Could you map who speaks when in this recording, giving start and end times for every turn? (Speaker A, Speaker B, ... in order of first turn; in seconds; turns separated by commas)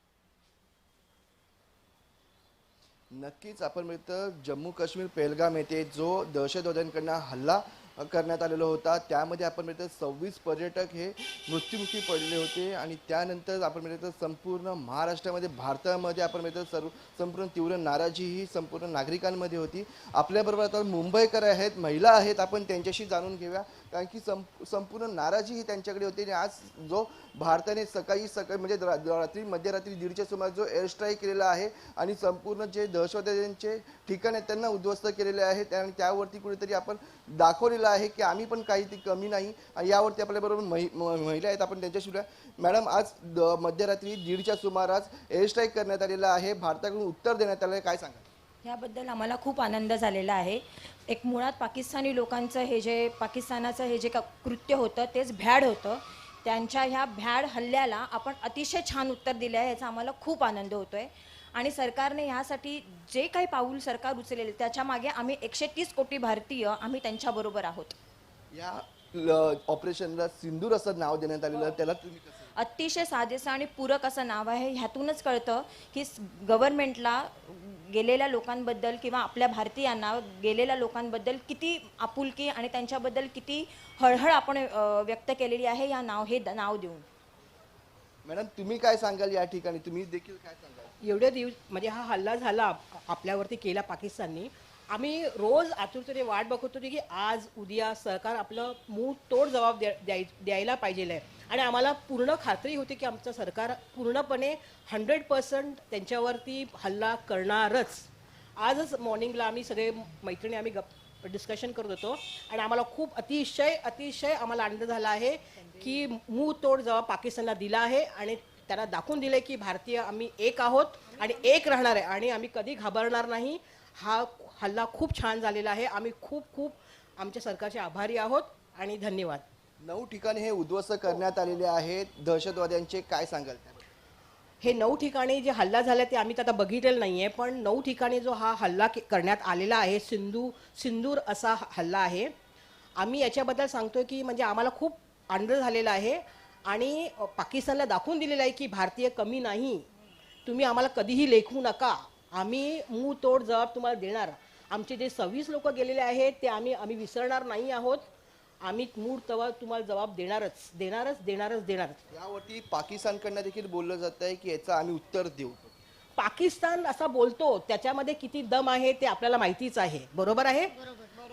Speaker A: 3.1-48.3, Speaker B: 48.6-68.0, Speaker A: 68.5-72.5, Speaker B: 72.5-87.0, Speaker A: 88.2-90.9, Speaker C: 91.0-129.4, Speaker A: 129.8-133.8, Speaker C: 134.6-142.3, Speaker C: 143.0-149.9, Speaker C: 150.5-158.1, Speaker C: 158.6-162.0, Speaker A: 162.1-165.7, Speaker C: 166.2-170.8